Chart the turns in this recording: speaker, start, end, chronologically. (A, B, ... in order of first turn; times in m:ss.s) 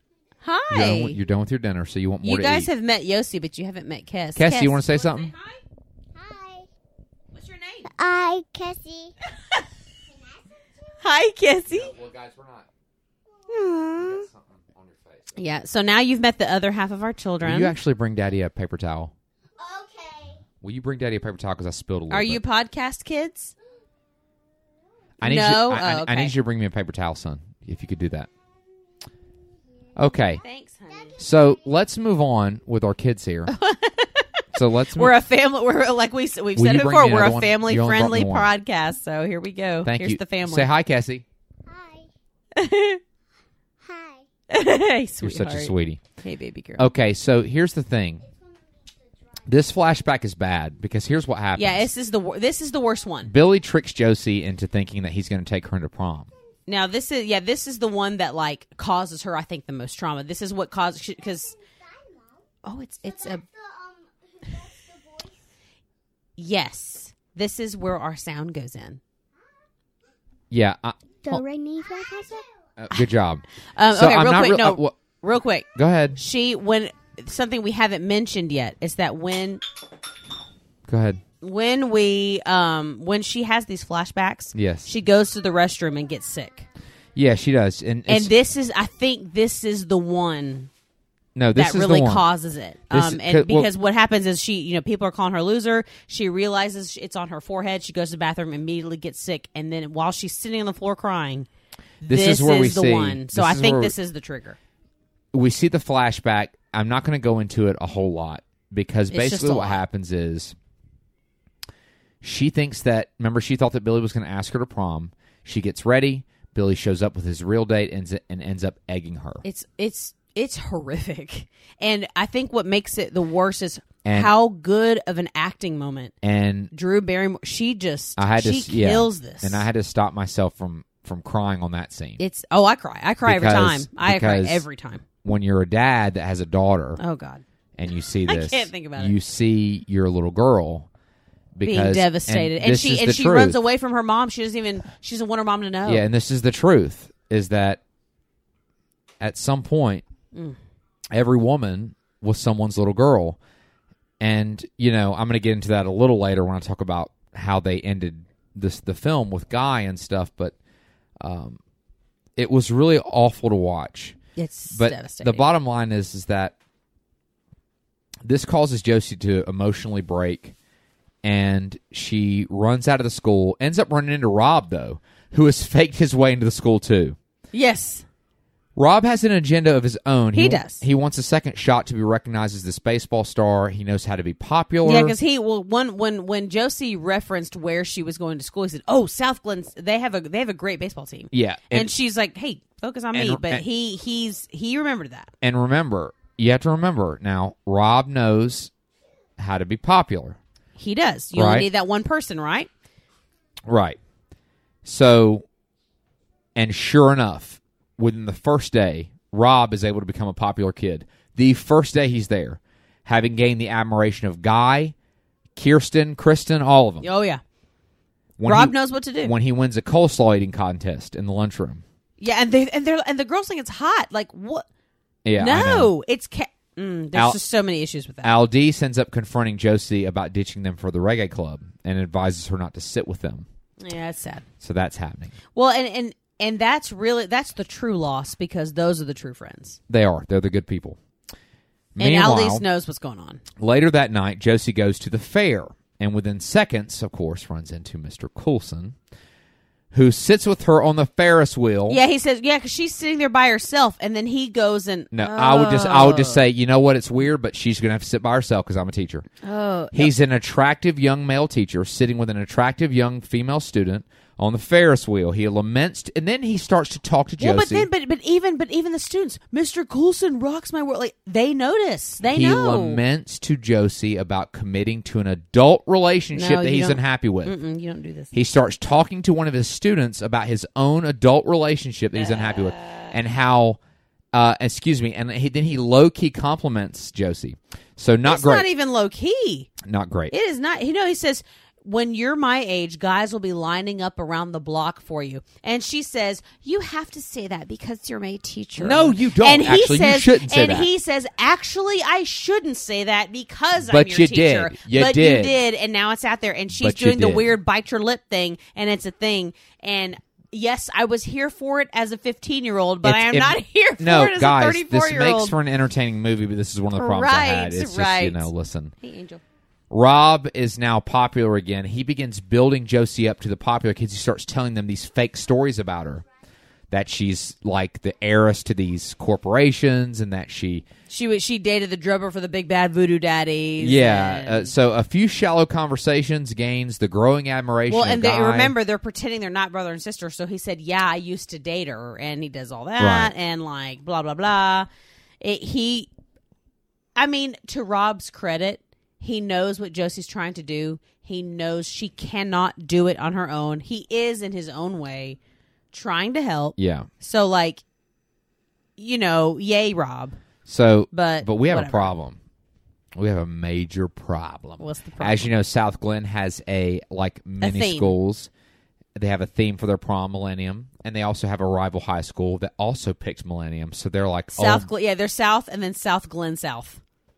0:00.4-0:01.2 A
0:00.7-0:02.7 B
0:02.2-0:05.6 A
0:04.4-0:05.3 B
0:06.1-0:06.7 C
0:07.3-0:07.9 A
0:07.9-0:09.1 C
0:09.2-0:09.6 A
0:10.1-0:10.4 C
0:11.0-0:11.9 A
0:11.7-0:12.7 B
0:13.5-0:14.1 C
0:13.5-0:13.9 A
0:13.9-0:15.2 B
0:15.3-0:17.7 A
0:17.4-0:19.1 B
0:19.6-0:20.4 C
0:20.6-0:22.4 B
0:22.1-0:23.5 A
0:25.2-0:28.3 B
0:25.2-0:26.3 A
0:30.0-0:30.4 B
0:30.4-0:31.2 A
0:31.2-0:33.5 B
0:33.5-0:40.7 A
0:34.5-0:35.1 B
0:36.5-0:38.5 B
0:39.8-0:41.2 B
0:41.6-0:42.1 C
0:42.5-0:43.0 A
0:43.8-0:44.2 C
0:44.5-0:46.9 A
0:45.2-0:46.0 B
0:46.8-0:48.2 B
0:49.5-0:51.9 B
0:51.6-0:53.3 A
0:53.2-0:56.3 B
0:56.7-1:01.5 A
1:01.9-1:02.2 C
1:02.6-1:03.4 A
1:03.2-1:05.3 C
1:06.4-1:09.0 A
1:10.5-1:11.0 B
1:11.2-1:12.5 C
1:12.8-1:15.0 B
1:13.7-1:19.6 A
1:15.7-1:16.2 B
1:20.9-1:21.2 B
1:21.4-1:26.6 A
1:24.5-1:24.9 B
1:27.2-1:28.3 B
1:28.1-1:30.7 A
1:31.3-1:32.2 B
1:31.6-1:41.5 A
1:32.9-1:33.7 B
1:42.0-1:44.6 A
1:42.0-1:43.9 B
1:45.3-1:50.5 B
1:49.1-1:49.8 A
1:52.2-1:59.4 B
1:59.4-2:06.1 A
2:04.0-2:04.3 B
2:06.2-2:06.7 B
2:06.7-2:09.6 A
2:08.2-2:12.2 B
2:12.2-2:15.0 A
2:13.2-2:14.6 B
2:15.2-2:17.0 B
2:17.0-2:17.4 A
2:17.8-2:20.9 B
2:18.2-2:19.1 A
2:21.6-2:23.6 B
2:21.6-2:26.0 A
2:25.8-2:27.8 B
2:29.2-2:30.0 B
2:31.1-2:33.4 B
2:34.2-2:40.5 B
2:41.2-2:41.6 B
2:42.4-2:44.2 B
2:44.4-2:45.4 A
2:44.7-2:46.6 B
2:48.2-2:50.5 B
2:51.2-2:57.2 B
2:57.5-2:58.0 A
2:58.8-3:05.2 B
3:00.3-3:00.8 A
3:04.8-3:15.3 A
3:11.3-3:11.9 B
3:13.1-3:13.6 B
3:15.4-3:18.7 B
3:19.4-3:20.4 B
3:20.8-3:22.7 A
3:21.3-3:21.7 B
3:23.6-3:24.0 B
3:24.8-3:25.4 B
3:26.5-3:34.9 B
3:35.6-3:37.1 B
3:37.0-3:37.4 A
3:38.4-3:41.8 B
3:38.4-3:39.3 A
3:42.2-3:44.6 A
3:45.2-3:45.9 B
3:45.4-3:48.4 A
3:47.1-3:47.4 B
3:48.2-3:53.4 B
3:53.8-3:54.4 A
3:54.6-3:55.3 B
3:55.5-3:59.8 A
3:59.9-4:01.0 B
4:02.0-4:02.6 B
4:02.0-4:03.4 A
4:03.6-4:09.0 B
4:09.9-4:12.0 B
4:11.9-4:16.4 A
4:15.1-4:19.2 B
4:19.4-4:20.1 A
4:19.9-4:27.9 B
4:27.4-4:33.0 A
4:32.3-4:37.5 B
4:36.3-4:38.3 A
4:38.3-4:43.8 B
4:42.2-4:43.1 A
4:44.3-4:48.7 B
4:48.2-4:49.7 A
4:49.8-4:50.3 B
4:50.3-5:15.5 A
4:58.8-5:00.9 B
5:03.8-5:05.6 B
5:06.8-5:07.5 B
5:13.0-5:18.9 B
5:17.0-5:18.5 A
5:19.0-5:19.4 A
5:19.9-5:26.2 B
5:26.9-5:30.8 B
5:31.1-5:34.7 A
5:33.8-5:38.7 B
5:37.9-5:44.9 A
5:43.0-5:43.3 B
5:45.4-5:46.1 A
5:47.2-5:55.4 A
5:55.9-5:57.8 A
5:56.8-5:57.1 B
5:59.0-6:00.4 A
6:00.6-6:02.4 B
6:01.1-6:02.1 A
6:03.2-6:08.5 B
6:04.8-6:05.5 A
6:07.6-6:08.1 A
6:09.2-6:14.9 B
6:14.5-6:17.0 A